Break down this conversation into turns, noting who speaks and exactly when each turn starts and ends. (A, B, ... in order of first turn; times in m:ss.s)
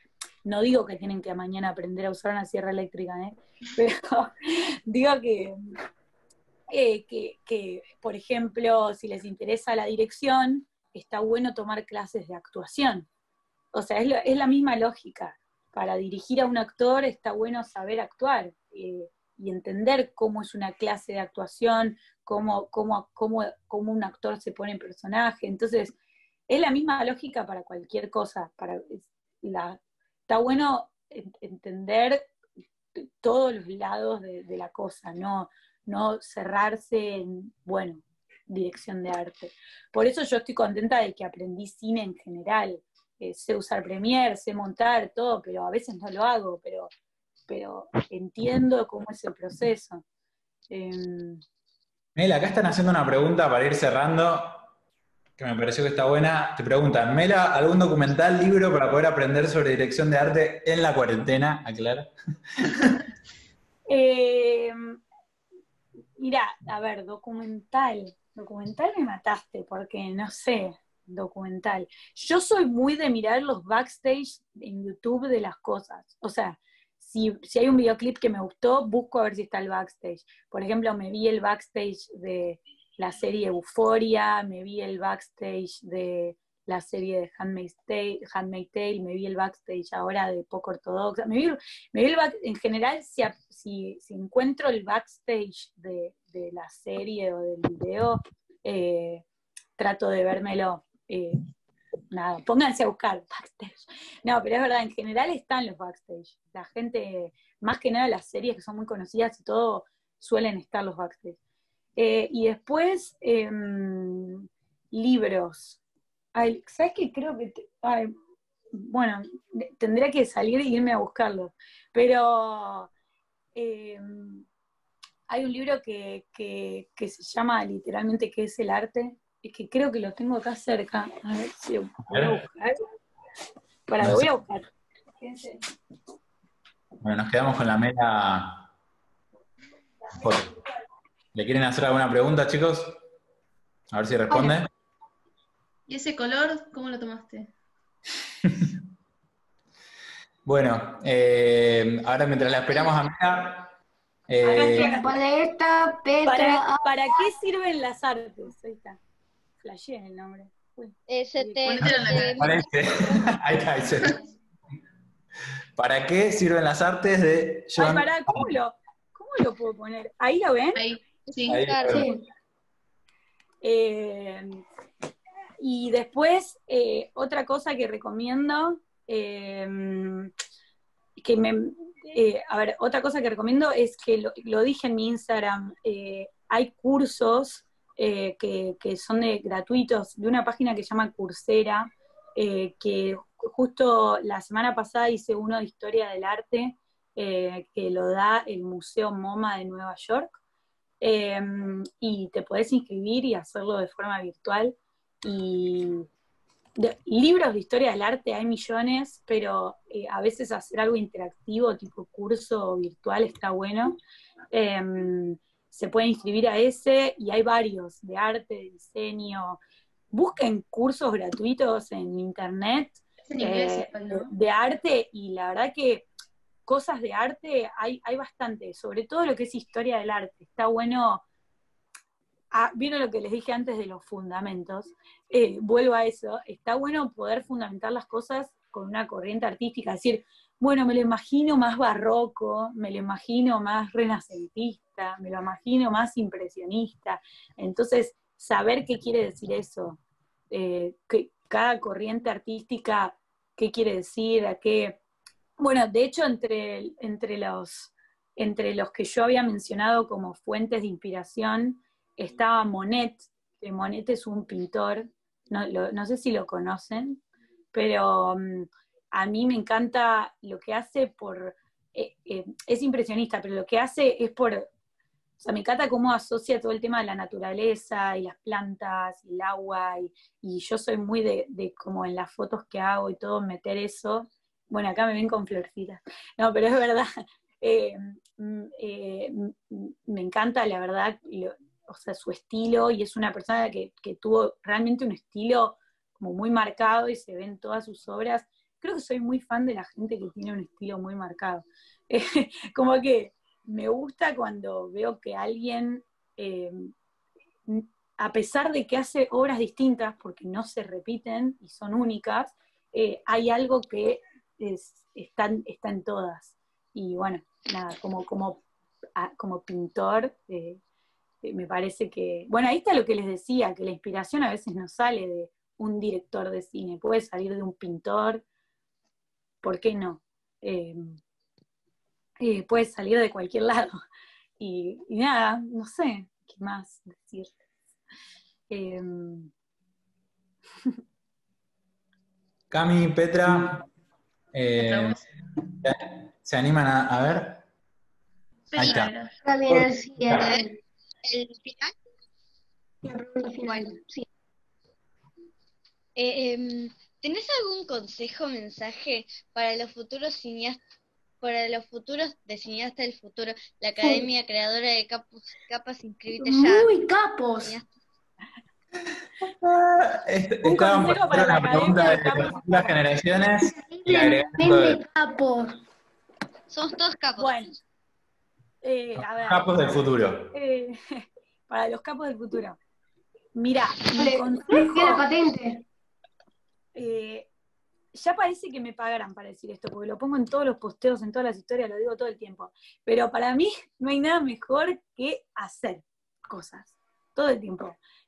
0:00.4-0:05.6 A
0:06.7-0:13.1 A
0:13.7-0:26.0 A
0:26.5-0:32.2 A
0:32.9-0:46.9 A
0:47.5-0:50.0 A
0:50.7-0:51.4 A
0:52.2-0:54.6 B
0:55.4-1:03.0 B
1:03.9-1:05.0 A
1:06.2-1:39.2 A
1:39.8-1:41.4 A
1:42.1-1:51.4 A
1:52.0-1:55.8 A
1:56.3-1:58.1 A
1:58.7-2:02.9 A
2:03.6-2:04.4 A
2:05.3-2:12.8 A
2:12.1-2:12.4 B
2:13.9-2:14.6 A
2:14.0-2:14.3 B
2:15.2-2:15.6 A
2:17.0-2:18.7 B
2:20.1-2:20.5 B
2:21.3-2:23.0 B
2:23.9-2:24.7 B
2:24.3-2:24.5 A
2:25.9-2:27.5 C
2:28.4-2:28.7 B
2:30.4-2:33.7 B
2:34.3-2:34.9 B
2:34.4-2:35.1 A
2:34.6-2:37.2 D
2:36.2-2:39.0 A
2:39.6-2:41.6 A
2:41.1-2:42.6 E
2:41.6-2:42.5 C
2:41.8-2:44.2 B
2:43.9-2:44.1 C
2:45.8-2:48.5 B
2:47.8-2:50.8 A
2:50.7-2:51.7 C
2:51.5-2:52.0 E
2:51.5-2:52.1 B
2:51.9-2:52.2 D
2:53.6-2:54.6 A
2:55.6-3:00.3 A
3:01.2-3:20.3 A
3:21.0-3:26.1 A
3:26.8-3:34.0 A
3:34.5-3:39.6 A
3:40.1-3:46.1 A
3:43.2-3:44.3 C
3:46.7-3:51.2 A
3:52.5-4:10.0 A
4:10.5-4:15.0 A
4:15.6-4:27.2 A
4:27.7-4:34.7 A
4:35.4-4:47.1 A
4:47.6-5:06.9 A
5:07.7-5:18.6 A
5:19.2-5:20.8 A
5:21.4-5:28.4 A
5:29.6-5:31.2 A
5:32.4-5:34.0 A
5:34.6-5:37.5 A
5:38.7-5:39.5 A
5:42.7-5:43.8 B
5:44.5-5:45.2 B
5:44.7-5:45.2 C
5:45.8-5:47.6 B
5:48.7-5:49.3 C
5:48.8-5:49.1 B
5:49.4-5:50.8 D
5:49.7-5:50.5 B
5:50.4-5:50.7 E
5:51.2-5:51.9 E
5:53.0-5:54.2 D
5:53.6-5:54.0 E
5:56.2-6:00.8 E
6:01.4-6:07.0 E
6:04.0-6:04.3 D
6:06.3-6:07.8 D
6:07.6-6:07.8 E
6:09.4-6:15.0 B
6:10.6-6:12.9 A
6:13.6-6:15.8 D
6:16.7-6:17.6 E
6:17.4-6:17.8 A
6:18.8-6:20.0 A
6:19.2-6:20.5 B
6:20.5-6:22.8 A
6:23.6-6:25.2 A
6:24.1-6:25.8 D
6:26.9-6:27.5 A
6:28.1-6:38.0 A